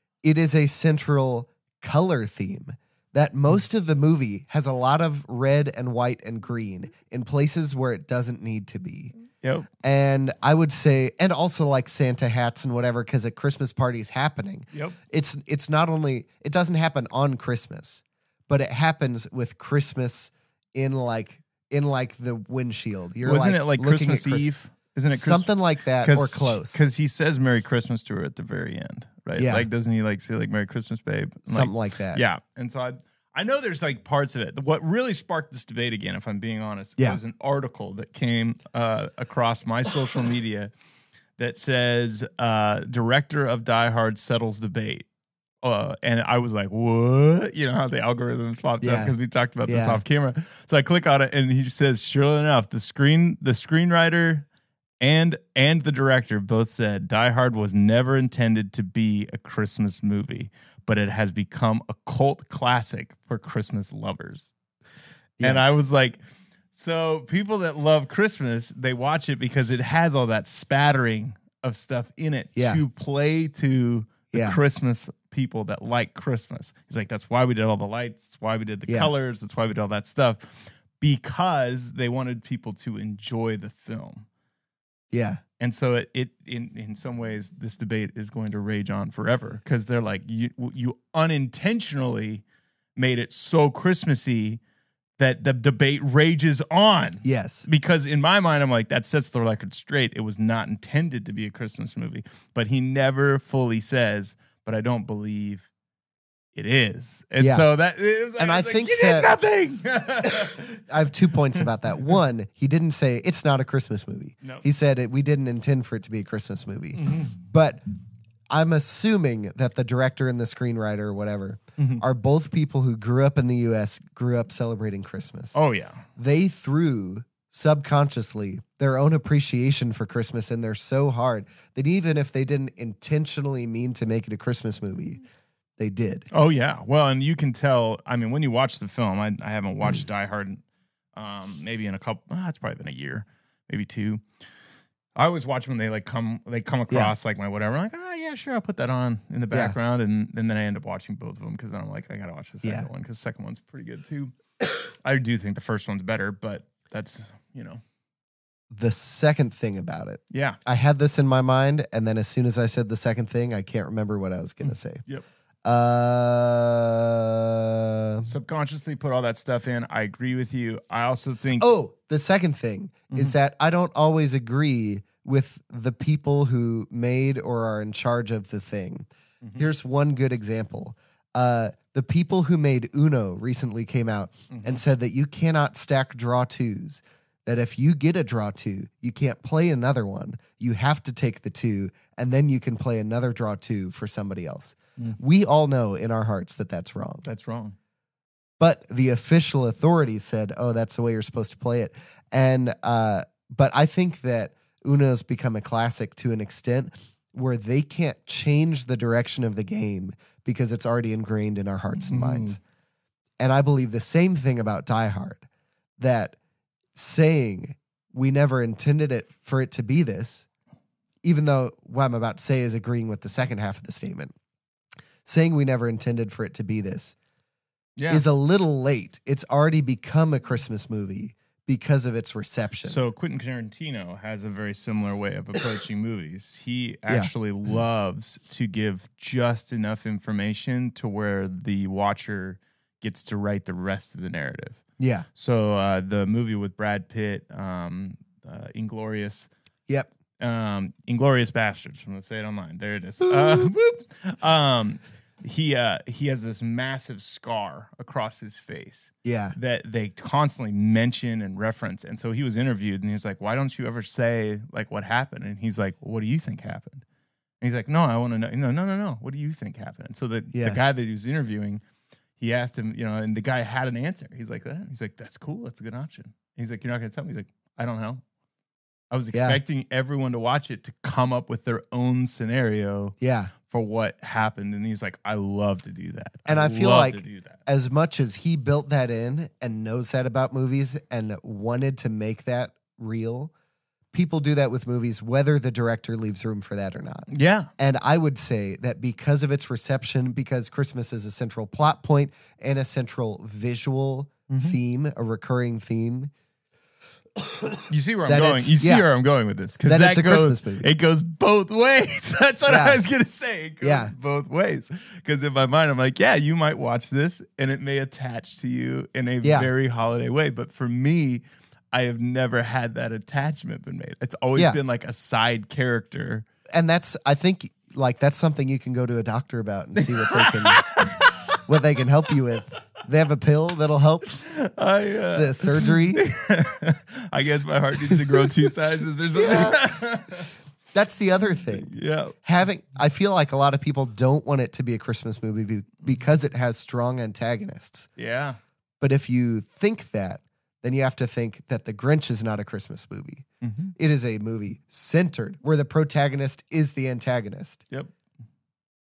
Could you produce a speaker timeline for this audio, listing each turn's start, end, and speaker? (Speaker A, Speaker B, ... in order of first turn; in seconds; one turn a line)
Speaker A: 0.2-9.1
Speaker B: 9.4-9.7
Speaker A: 9.8-24.5
Speaker B: 23.2-25.5
Speaker A: 25.1-26.9
Speaker B: 26.0-40.7
Speaker A: 29.4-29.7
Speaker A: 31.5-32.2
Speaker B: 41.4-45.1
Speaker B: 45.6-54.5
Speaker A: 48.8-49.1
Speaker A: 49.7-50.0
Speaker B: 55.0-64.5
Speaker A: 65.4-65.7
Speaker B: 65.4-66.2
Speaker B: 66.7-84.3
Speaker A: 72.5-72.8
Speaker A: 74.3-74.6
Speaker A: 85.1-85.4
Speaker B: 85.6-92.4
Speaker B: 93.0-94.6
Speaker B: 95.2-105.7
Speaker A: 97.2-97.7
Speaker B: 106.5-110.9
Speaker A: 107.4-107.7
Speaker A: 108.4-109.3
Speaker A: 110.9-117.8
Speaker B: 117.0-117.4
Speaker A: 118.5-125.6
Speaker B: 121.8-122.0
Speaker B: 125.5-126.1
Speaker A: 126.2-135.2
Speaker A: 135.8-136.3
Speaker B: 136.3-140.6
Speaker B: 141.2-144.2
Speaker B: 145.2-154.3
Speaker B: 155.0-157.8
Speaker A: 158.7-165.0
Speaker B: 160.3-160.6
Speaker B: 164.6-165.2
Speaker A: 165.7-168.3
Speaker B: 168.2-171.7
Speaker A: 171.6-197.3
Speaker B: 173.1-173.4
Speaker B: 184.5-184.8
Speaker B: 197.2-197.8
Speaker A: 198.6-212.6
Speaker B: 212.0-212.6
Speaker A: 213.4-215.4
Speaker A: 216.0-216.4
Speaker A: 216.9-220.5
Speaker A: 221.2-224.3
Speaker A: 225.2-227.2
Speaker B: 228.0-228.2
Speaker A: 228.1-233.0
Speaker B: 232.8-244.8
Speaker A: 245.0-245.3
Speaker B: 245.3-249.5
Speaker B: 250.4-267.0
Speaker A: 259.2-259.6
Speaker B: 267.6-271.8
Speaker A: 270.5-270.8
Speaker B: 272.4-278.2
Speaker B: 279.1-283.2
Speaker A: 279.3-279.6
Speaker A: 283.2-283.5
Speaker B: 283.7-287.6
Speaker A: 286.5-293.5
Speaker A: 294.1-297.3
Speaker B: 297.3-297.7
Speaker A: 297.8-306.3
Speaker B: 304.5-304.8
Speaker A: 307.5-309.1
Speaker B: 307.9-326.5
Speaker A: 309.8-310.9
Speaker A: 312.7-313.0
Speaker A: 313.8-314.1
Speaker A: 319.4-319.7
Speaker A: 326.7-330.9
Speaker B: 330.0-331.6
Speaker A: 331.6-334.3
Speaker B: 334.3-340.5
Speaker A: 335.3-336.2
Speaker A: 338.1-338.5
Speaker A: 339.4-339.9
Speaker A: 340.9-348.1
Speaker B: 341.9-342.4
Speaker B: 348.2-348.6
Speaker A: 349.0-357.8
Speaker B: 353.6-353.9